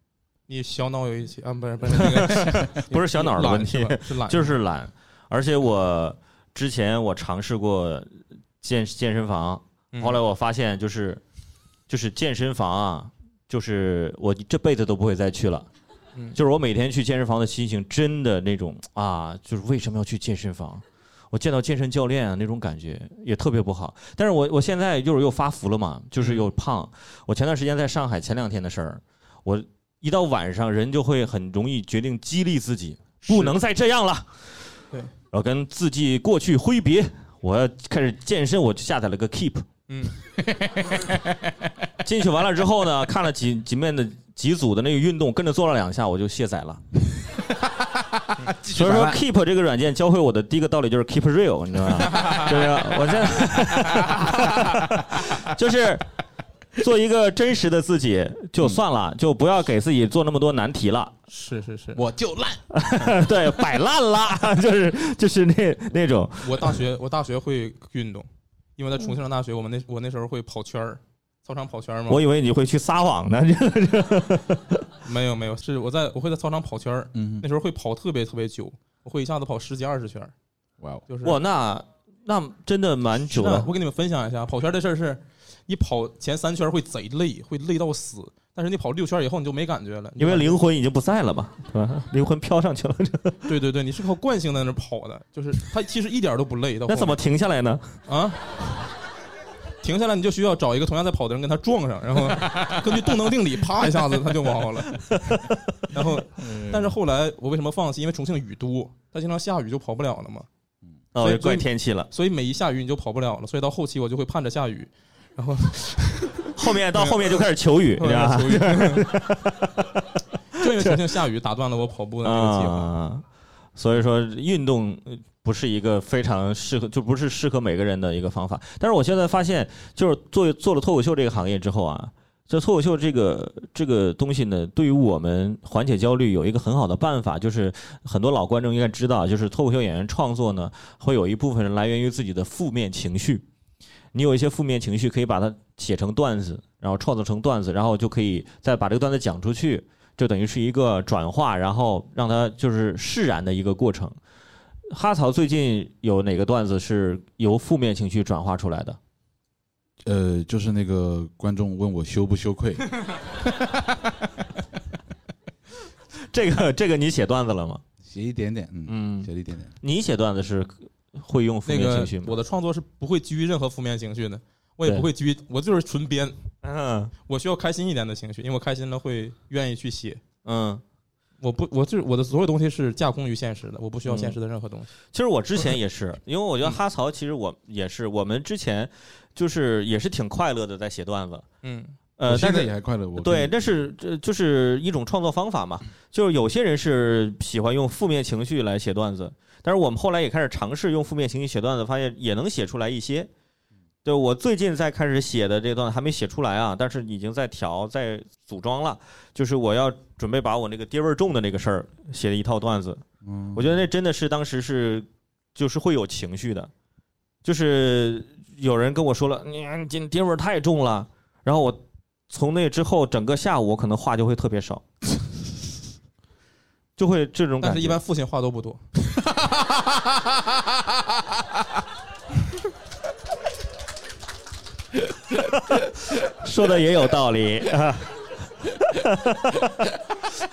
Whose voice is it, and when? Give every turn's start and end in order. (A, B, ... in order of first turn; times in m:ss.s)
0:00.5-0:04.5 A
0:02.3-0:11.2 B
0:11.9-0:15.7 B
0:16.3-0:34.8 B
0:26.2-0:26.4 A
0:33.2-0:33.6 A
0:35.3-0:39.7 B
0:39.9-0:40.2 A
0:40.4-0:41.7 C
0:42.0-0:46.8 B
0:48.4-0:49.2 C
0:48.7-0:56.1 B
0:53.8-0:55.1 C
0:56.8-1:01.2 B
1:01.3-1:02.0 A
1:02.0-1:02.6 C
1:02.7-1:06.8 B
1:06.4-1:12.2 A
1:12.1-1:14.8 B
1:15.0-1:20.3 A
1:17.1-1:17.5 C
1:20.8-1:21.0 C
1:21.1-1:21.4 A
1:21.2-1:23.7 B
1:23.3-1:30.6 A
1:30.2-1:33.5 B
1:33.5-1:37.2 A
1:36.9-1:38.0 B
1:38.1-1:38.4 A
1:39.8-1:45.1 A
1:45.1-1:45.6 B
1:45.9-1:50.5 A
1:46.4-1:46.9 C
1:51.1-1:52.1 B
1:51.2-1:57.4 A
1:56.6-1:59.8 B
1:58.0-1:59.1 A
2:00.6-2:02.9 A
2:00.6-2:00.9 B
2:02.2-2:03.2 B
2:03.8-2:23.4 B
2:24.1-2:34.2 B
2:34.9-2:39.0 B
2:40.0-2:43.9 C
2:46.3-2:47.8 B
2:48.0-2:49.7 C
2:48.9-2:52.4 B
2:51.7-2:56.4 A
2:56.6-2:57.1 B
2:57.3-3:00.2 A
3:00.4-3:00.8 B
3:01.4-3:04.9 A
3:04.1-3:04.4 B
3:05.1-3:11.5 B
3:11.6-3:12.0 A
3:12.2-3:23.3 B
3:12.3-3:13.8 C
3:24.0-3:33.0 B
3:33.2-3:33.8 C
3:33.5-3:36.7 B
3:37.4-3:44.8 B
3:47.0-3:48.0 B
3:47.6-3:48.8 A
3:55.5-3:59.9 B